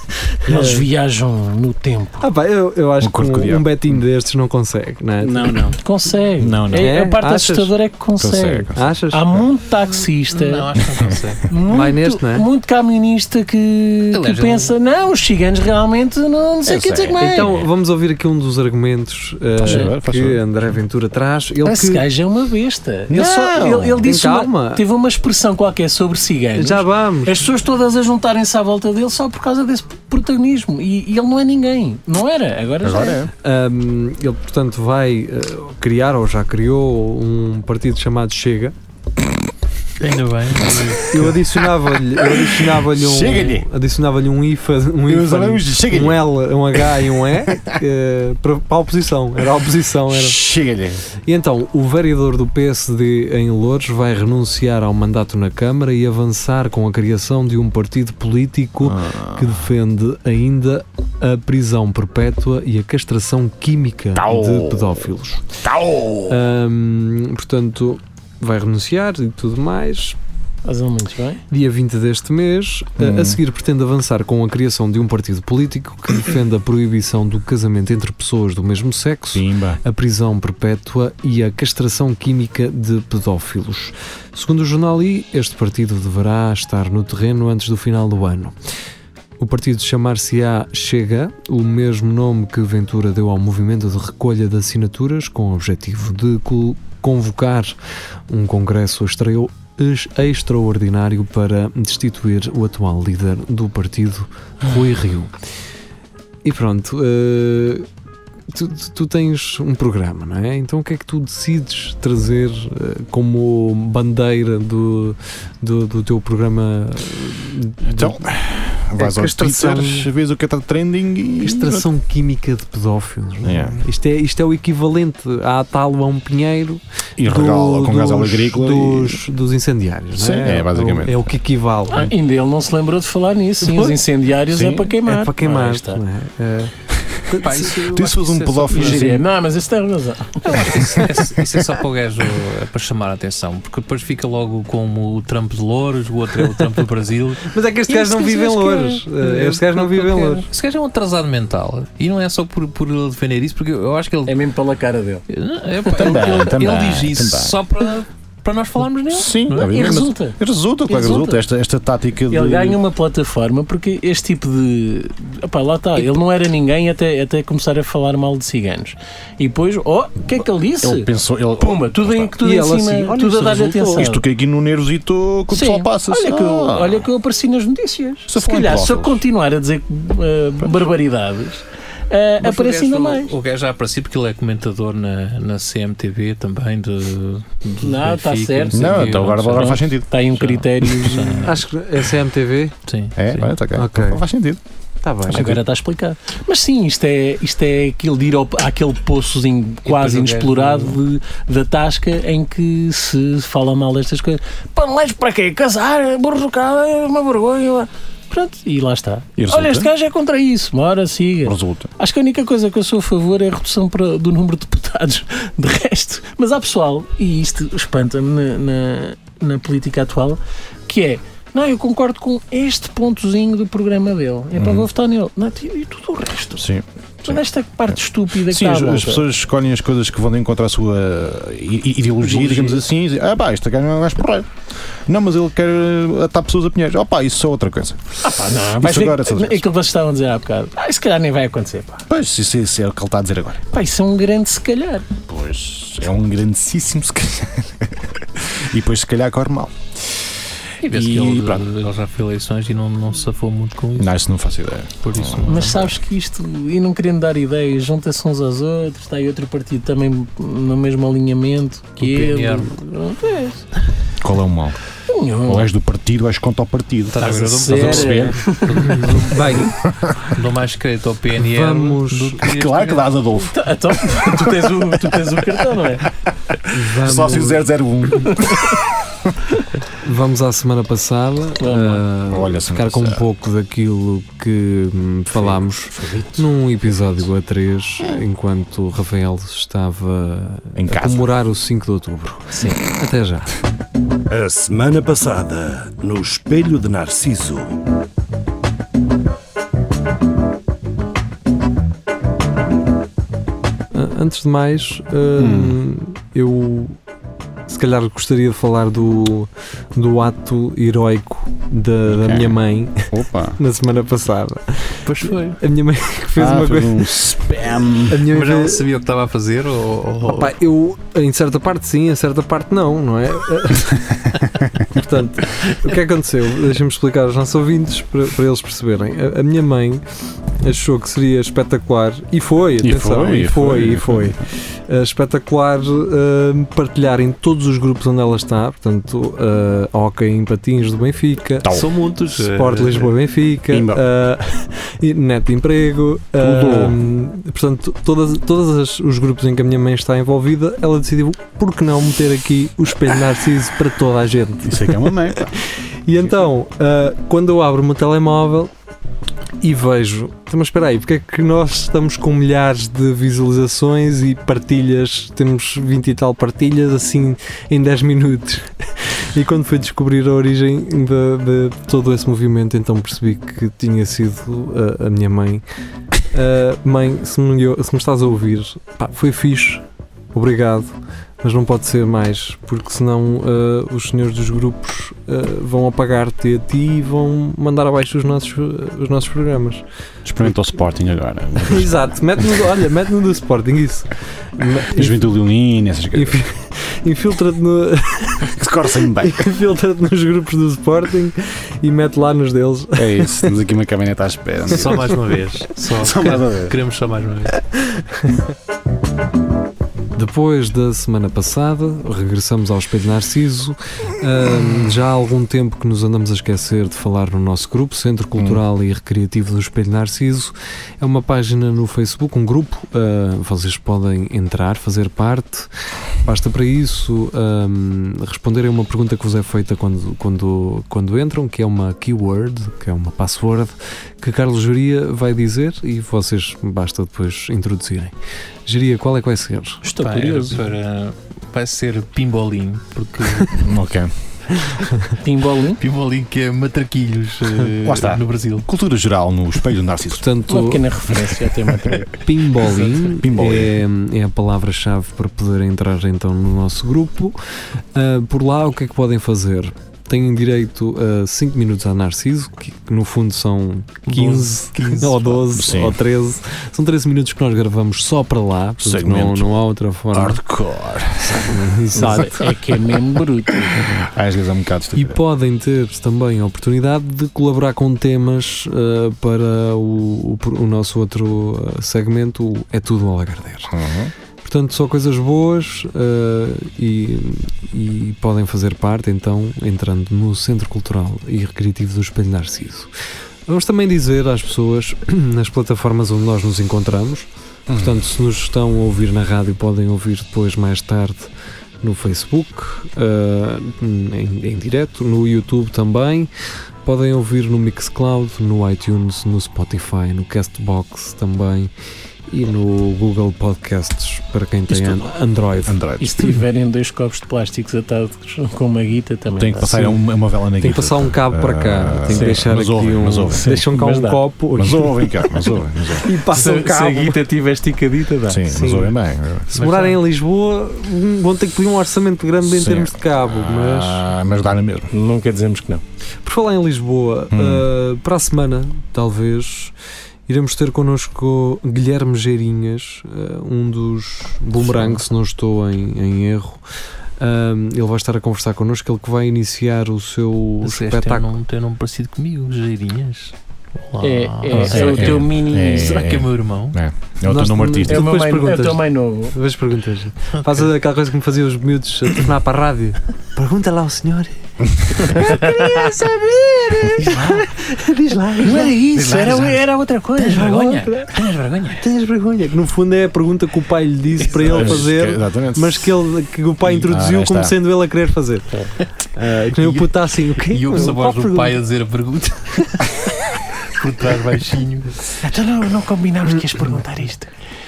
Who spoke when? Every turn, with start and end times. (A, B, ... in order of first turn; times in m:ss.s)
0:00.4-0:00.9 A
0:00.5-0:02.3 B
0:02.2-0:05.8 A
0:03.0-0:04.0 C
0:05.2-0:05.8 C
0:05.8-0:10.7 B
0:06.4-0:07.0 C
0:06.7-0:07.7 A
0:08.2-0:09.4 C
0:08.8-0:09.4 A
0:10.3-0:11.5 D
0:11.5-0:17.5 B
0:11.7-0:12.5 A
0:14.1-0:14.8 D
0:16.6-0:17.7 C
0:17.2-0:22.0 A
0:19.6-0:20.4 C
0:19.7-0:19.9 B
0:21.6-0:33.2 B
0:23.1-0:24.1 C
0:24.0-0:24.8 A
0:26.6-0:27.4 A
0:32.8-0:33.3 C
0:33.4-0:38.8 A
0:40.0-0:41.2 D
0:40.8-0:43.7 C
0:41.1-0:50.4 A
0:45.0-0:47.8 C
0:50.1-0:51.0 C
0:51.3-1:05.4 A
0:58.8-0:59.6 C
1:04.2-1:05.0 C
1:05.6-1:06.4 C
1:06.3-1:10.2 A
1:10.6-1:11.4 B
1:11.5-1:28.6 A
1:13.0-1:13.4 C
1:19.3-1:19.8 C
1:29.4-1:37.8 A
1:38.3-1:45.4 A
1:46.4-1:47.9 A
1:48.5-1:58.2 A
1:57.8-2:01.9 C
1:59.0-2:00.1 A
2:01.4-2:12.1 A
2:03.4-2:03.8 C
2:07.2-2:09.2 C
2:10.2-2:11.3 C
2:11.9-2:16.0 B
2:13.6-2:14.0 A
2:14.5-2:15.0 C
2:15.0-2:16.7 A
2:17.0-2:19.2 C
2:17.3-2:17.7 A
2:17.4-2:19.2 D
2:18.7-2:21.0 B
2:20.5-2:27.5 D
2:20.6-2:21.2 C
2:27.5-2:30.5 A
2:27.9-2:29.5 B
2:29.4-2:34.4 D
2:34.3-2:35.2 B
2:35.3-2:39.9 D
2:35.8-2:36.5 B
2:35.9-2:37.6 C
2:39.1-2:42.8 C
2:39.5-2:41.4 B
2:42.3-2:54.2 B
2:50.8-2:52.4 C
2:52.4-2:54.1 A
2:53.9-2:57.1 C
2:55.5-3:03.3 B
2:58.3-2:59.2 C
3:02.4-3:11.6 D
3:07.8-3:11.6 B
3:08.7-3:10.1 C
3:11.4-3:12.8 A
3:12.9-3:13.5 D
3:13.2-3:14.6 C
3:13.8-3:14.2 A
3:15.0-3:15.6 A
3:15.3-3:15.6 C
3:15.3-3:46.7 B
3:19.8-3:21.0 D
3:29.4-3:29.9 C
3:31.4-3:31.9 C
3:44.6-3:44.9 C
3:46.6-3:54.5 C
3:47.2-3:49.2 B
3:52.2-3:52.8 B
3:55.1-3:59.7 C
3:58.2-4:02.0 B
4:02.1-4:03.6 C
4:03.7-4:05.1 B
4:05.3-4:10.2 C
4:10.8-4:11.7 C
4:10.8-4:14.1 D
4:14.0-4:15.9 C
4:15.0-4:15.9 D
4:15.5-4:23.7 B
4:22.0-4:22.7 D
4:24.2-4:24.8 C
4:25.1-4:25.7 B
4:25.4-4:28.6 C
4:27.1-4:29.6 D
4:27.6-4:29.6 B
4:28.8-4:29.7 A
4:29.6-4:30.2 C
4:30.3-4:33.1 D
4:31.4-4:32.4 A
4:32.4-4:35.2 C
4:33.5-4:36.1 B
4:36.5-4:39.3 C
4:36.7-4:37.7 A
4:40.0-4:53.5 A
4:41.6-4:42.0 B
4:42.3-4:43.3 C
4:45.3-4:46.4 B
4:50.8-4:51.3 C
4:52.5-4:52.8 B
4:54.3-4:57.7 E
5:03.9-5:07.0 A
5:05.4-5:05.8 C
5:07.7-5:17.3 A
5:12.1-5:13.6 C
5:15.1-5:15.6 D
5:16.4-5:18.2 C
5:18.1-5:18.8 A
5:18.3-5:20.5 D
5:20.2-5:24.1 A
5:24.9-5:30.0 A
5:30.6-5:58.7 A
5:32.8-5:34.4 C
5:41.6-5:41.9 C
5:41.7-5:43.1 D
5:43.7-5:44.0 C
5:46.4-5:47.0 C
5:54.6-5:55.5 C
5:59.6-6:15.6 A
6:16.3-6:29.8 A
6:30.2-6:32.7 C
6:31.6-6:35.4 A
6:35.0-6:36.4 C
6:36.1-6:43.5 A
6:38.6-6:39.5 C
6:43.0-6:45.3 C
6:44.7-6:47.6 D
6:46.0-6:46.8 C
6:50.2-7:05.7 A
6:58.4-6:58.6 C
7:06.2-7:18.2 A
7:18.7-7:19.8 A
7:19.8-7:20.6 B
7:20.0-7:23.6 D
7:23.6-7:24.1 C
7:24.6-7:25.0 A
7:25.2-7:25.8 B
7:25.8-7:28.7 D
7:27.8-7:30.2 C
7:30.2-7:30.9 A
7:30.5-7:32.8 B
7:31.3-7:32.0 C
7:32.2-7:37.4 A
7:33.1-7:33.8 C
7:37.9-7:50.4 A
7:44.1-7:45.3 D
7:45.4-7:46.0 C
7:48.8-7:49.6 C
7:50.1-7:52.6 C
7:51.2-7:52.4 A
7:52.0-7:53.8 B
7:53.7-7:55.2 C
7:55.0-8:03.7 A
8:03.7-8:04.1 C
8:04.4-8:12.9 A
8:13.5-8:21.3 A
8:17.7-8:18.0 C
8:21.8-8:26.3 A
8:26.8-8:31.7 A
8:32.3-8:35.8 A
8:34.7-8:35.1 C
8:35.6-8:36.2 C
8:36.0-8:40.0 B
8:39.4-8:43.5 C
8:40.6-8:45.3 A
8:42.1-8:42.4 B
8:43.3-8:44.2 B
8:44.6-8:46.1 C
8:46.0-8:47.2 A
8:46.2-8:48.5 B
8:48.3-8:49.5 C
8:48.5-8:49.0 A
8:49.5-8:54.0 A
8:49.5-8:50.0 D
8:52.4-8:54.9 C
8:54.9-8:55.8 B
8:56.2-8:59.7 A
8:57.3-8:57.7 C
9:00.3-9:06.6 A
9:07.2-9:11.3 A
9:10.6-9:16.8 D
9:14.0-9:16.0 B
9:14.5-9:18.1 C
9:17.2-9:24.3 A
9:17.9-9:19.4 B
9:24.7-9:25.1 C
9:24.9-9:28.8 A
9:25.1-9:25.8 B
9:27.0-9:27.4 B
9:28.4-9:30.9 B
9:29.0-9:29.6 D
9:30.2-9:31.8 D
9:30.8-9:31.0 A
9:31.8-9:38.5 A
9:34.3-9:34.7 D
9:34.5-9:36.0 C
9:36.6-9:37.6 C
9:39.1-9:41.6 A
9:40.5-9:45.0 D
9:45.2-9:47.3 B